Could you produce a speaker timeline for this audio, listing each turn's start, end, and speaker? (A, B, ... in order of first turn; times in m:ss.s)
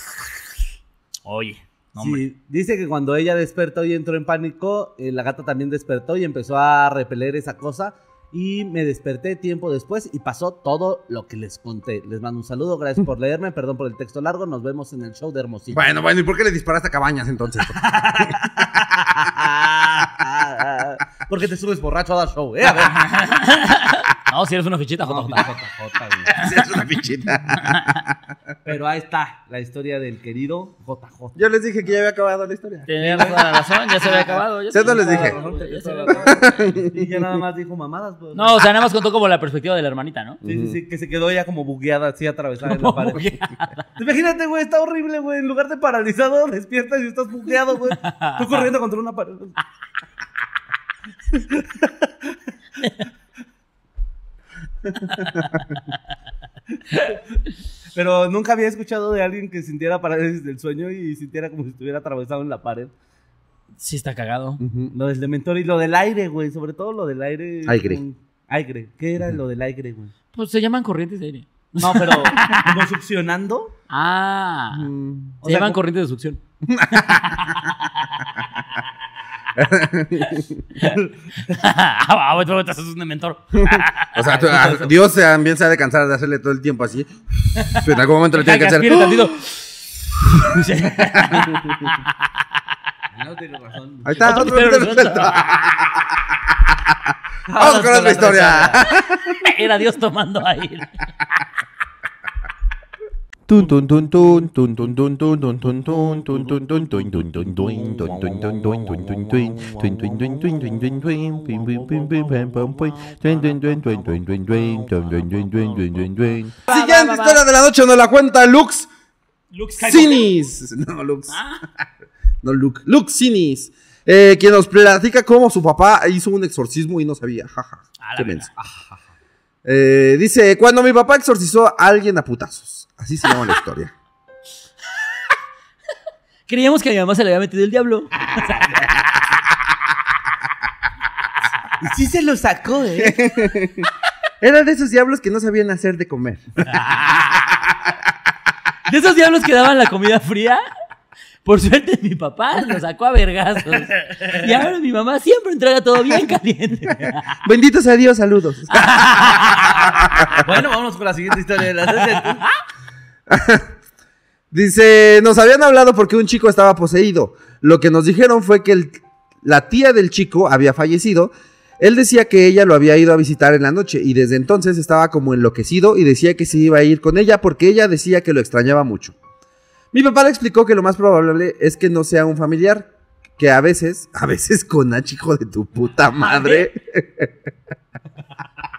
0:01.2-0:02.2 A
0:02.0-0:15.8 B
0:15.7-0:18.5 C
0:17.8-0:23.1 B
0:22.8-0:25.5 A
0:25.0-0:26.3 B
0:26.3-0:26.6 A
0:26.3-0:28.1 C
0:27.6-0:27.9 A
0:28.6-0:31.4 B
0:31.4-0:33.2 C
0:32.9-0:36.5 A
0:33.0-0:33.6 B
0:34.7-0:35.4 C
0:34.8-0:38.5 B
0:36.1-0:37.1 C
0:38.3-0:40.4 A
0:40.4-0:40.8 C
0:40.4-0:43.2 B
0:42.6-0:43.8 A
0:44.0-0:49.6 B
0:48.0-0:48.7 A
0:51.3-0:52.4 B
0:57.9-1:02.9 B
1:03.8-1:04.6 A
1:04.6-1:04.9 C
1:04.9-1:10.1 B
1:07.6-1:08.0 C
1:10.3-1:12.8 A
1:11.8-1:13.7 B
1:13.9-1:14.9 A
1:14.7-1:15.4 C
1:15.4-1:16.4 A
1:15.4-1:15.8 B
1:16.6-1:17.5 C
1:17.1-1:18.4 A
1:19.6-1:20.6 C
1:20.8-1:24.1 A
1:23.5-1:29.3 C
1:24.2-1:24.9 B
1:27.6-1:32.1 A
1:30.3-1:31.7 C
1:33.1-1:34.5 B
1:34.0-1:39.4 C
1:34.2-1:35.6 A
1:37.5-1:38.9 B
1:39.4-1:41.0 A
1:43.5-1:56.6 D
1:56.6-1:58.9 C
1:56.7-1:57.4 A
1:59.5-2:00.3 A
1:59.8-2:01.8 C
2:01.3-2:01.6 A
2:02.4-2:08.5 C
2:08.0-2:08.5 A
2:08.6-2:09.0 B
2:09.6-2:13.9 C
2:16.5-2:19.0 A
2:21.8-2:23.2 B
2:23.0-2:23.9 C
2:24.4-2:26.4 C
2:26.8-2:27.2 A
2:28.8-2:30.6 A
2:31.4-2:37.2 A
2:37.4-2:40.4 C
2:38.7-2:39.9 A
2:40.4-2:42.4 B
2:43.3-2:43.7 C
2:44.5-2:59.1 C
2:59.9-3:07.3 C
3:06.2-3:06.7 A